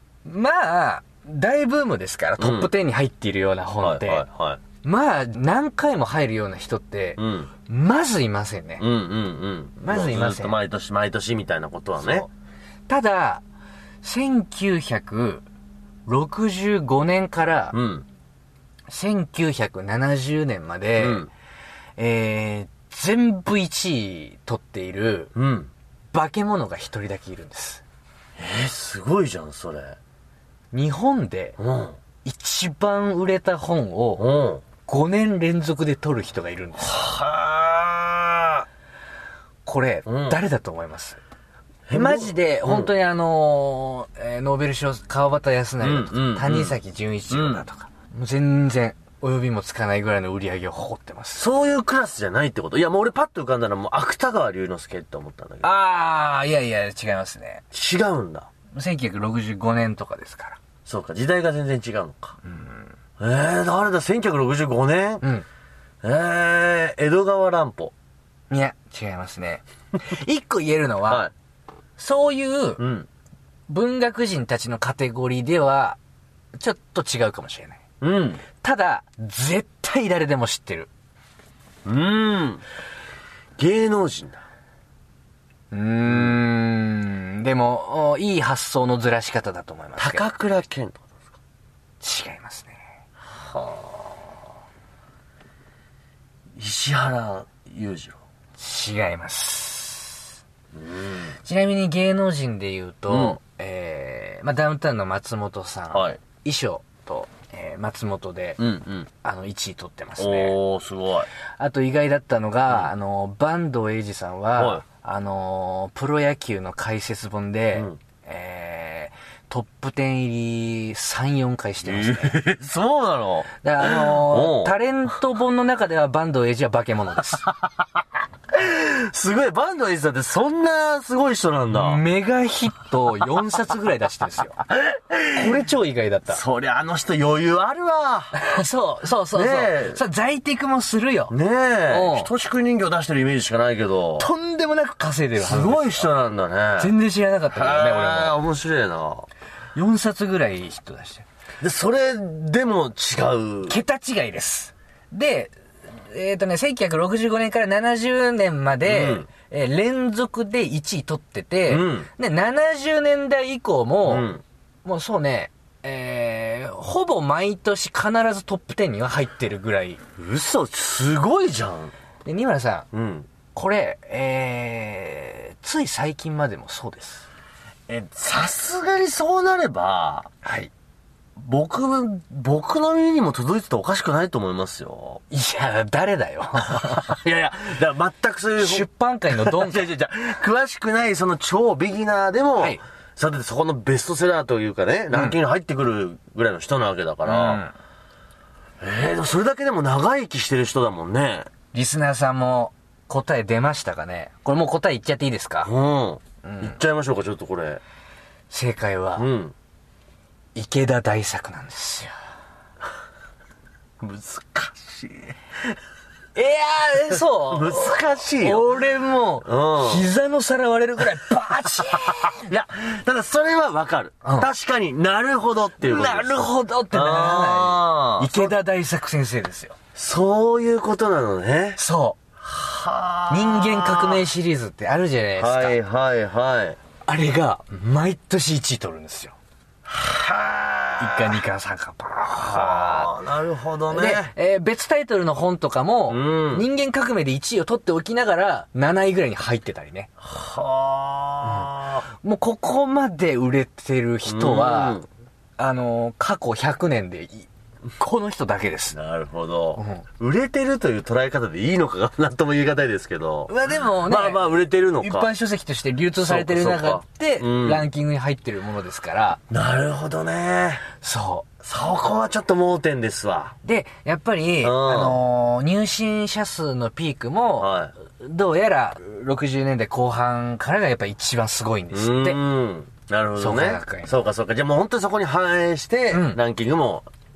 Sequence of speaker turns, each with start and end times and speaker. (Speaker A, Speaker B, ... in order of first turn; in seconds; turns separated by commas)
Speaker A: 0.2-4.2, Speaker B: 2.4-2.7, Speaker B: 3.8-4.6, Speaker A: 4.8-8.8, Speaker B: 7.2-7.5, Speaker B: 8.8-12.3, Speaker A: 9.8-10.5, Speaker A: 12.9-13.4, Speaker A: 14.0-15.4, Speaker A: 16.1-17.8, Speaker B: 17.7-18.1, Speaker A: 18.9-21.3, Speaker B: 21.0-21.3, Speaker A: 22.0-25.3, Speaker B: 25.3-25.7, Speaker A: 26.1-27.8, Speaker B: 28.4-30.0, Speaker A: 30.7-31.6, Speaker B: 31.6-32.0, Speaker A: 32.2-34.3, Speaker B: 34.2-34.6, Speaker A: 34.9-37.0, Speaker B: 36.8-38.6, Speaker A: 39.6-41.2, Speaker B: 40.1-40.4, Speaker B: 41.9-42.9, Speaker A: 41.9-51.5, Speaker B: 45.8-46.8, Speaker B: 47.3-47.6, Speaker B: 51.4-55.7, Speaker A: 55.6-57.6, Speaker B: 57.7-58.5, Speaker A: 58.7-60.6, Speaker B: 60.9-62.4, Speaker A: 62.4-62.9, Speaker B: 63.2-65.2, Speaker B: 66.0-67.9, Speaker A: 68.5-71.3, Speaker A: 72.0-72.8, Speaker B: 72.8-73.1, Speaker A: 73.7-76.0, Speaker A: 76.5-77.8, Speaker B: 78.0-78.4, Speaker A: 78.6-80.9, Speaker B: 81.8-82.6, Speaker B: 83.6-84.4, Speaker A: 85.7-90.2, Speaker B: 86.0-86.4, Speaker B: 90.0-91.2, Speaker A: 92.0-92.8, Speaker B: 93.3-94.2, Speaker B: 96.5-98.2, Speaker A: 98.6-100.3, Speaker B: 100.7-101.3, Speaker A: 101.4-108.6, Speaker B: 103.1-103.4, Speaker B: 105.9-106.2, Speaker B: 108.6-109.1, Speaker A: 109.2-110.5, Speaker B: 110.2-111.3, Speaker A: 111.6-122.4, Speaker B: 114.6-114.8, Speaker B: 121.8-124.7, Speaker A: 123.6-127.5, Speaker B: 128.5-132.0, Speaker A: 131.7-134.6, Speaker B: 134.8-135.5, Speaker A: 135.3-136.4, Speaker B: 136.3-138.3, Speaker A: 138.3-141.3, Speaker B: 139.3-140.0, Speaker B: 141.3-144.3, Speaker A: 141.9-142.3, Speaker A: 144.2-146.1, Speaker B: 145.4-146.9, Speaker A: 146.8-148.4, Speaker B: 147.5-149.3, Speaker A: 149.7-151.2, Speaker B: 151.6-153.8, Speaker A: 153.7-164.3, Speaker B: 158.8-159.3, Speaker B: 161.7-162.1, Speaker B: 164.1-164.4, Speaker A: 164.8-170.0, Speaker B: 170.2-171.9, Speaker A: 172.2-172.9, Speaker B: 172.9-173.3, Speaker A: 173.5-177.3, Speaker B: 177.9-180.3, Speaker A: 180.4-180.7, Speaker B: 181.4-185.2, Speaker A: 185.3-187.2, Speaker B: 186.7-197.6, Speaker A: 188.6-189.9, Speaker A: 197.2-197.7, Speaker B: 198.8-201.5, Speaker A: 201.7-205.7, Speaker B: 205.6-207.8, Speaker A: 206.4-206.8, Speaker A: 208.5-209.3, Speaker B: 209.2-209.5, Speaker A: 210.5-212.1, Speaker B: 214.0-215.4, Speaker A: 216.3-222.5, Speaker B: 217.5-218.7, Speaker B: 219.4-220.1, Speaker B: 221.9-228.5, Speaker A: 224.2-224.5, Speaker A: 225.8-229.8, Speaker B: 229.9-231.8, Speaker A: 231.8-232.2, Speaker B: 232.4-234.2, Speaker A: 233.3-235.8, Speaker B: 235.4-236.8, Speaker A: 237.1-239.3, Speaker B: 239.8-241.4, Speaker A: 241.0-243.2, Speaker B: 242.3-244.3, Speaker A: 243.9-250.1, Speaker B: 246.1-246.7, Speaker B: 250.2-252.0, Speaker A: 251.4-255.0, Speaker B: 254.2-255.1, Speaker A: 255.6-259.0, Speaker B: 258.9-265.3, Speaker A: 259.8-260.1, Speaker A: 263.5-264.5, Speaker A: 265.0-269.4, Speaker B: 266.2-267.9, Speaker B: 269.5-270.9, Speaker A: 271.0-271.5, Speaker B: 271.6-273.6, Speaker A: 273.6-282.4, Speaker B: 274.6-275.2, Speaker B: 277.6-277.9, Speaker B: 281.9-287.1, Speaker A: 283.4-284.1, Speaker A: 286.1-286.4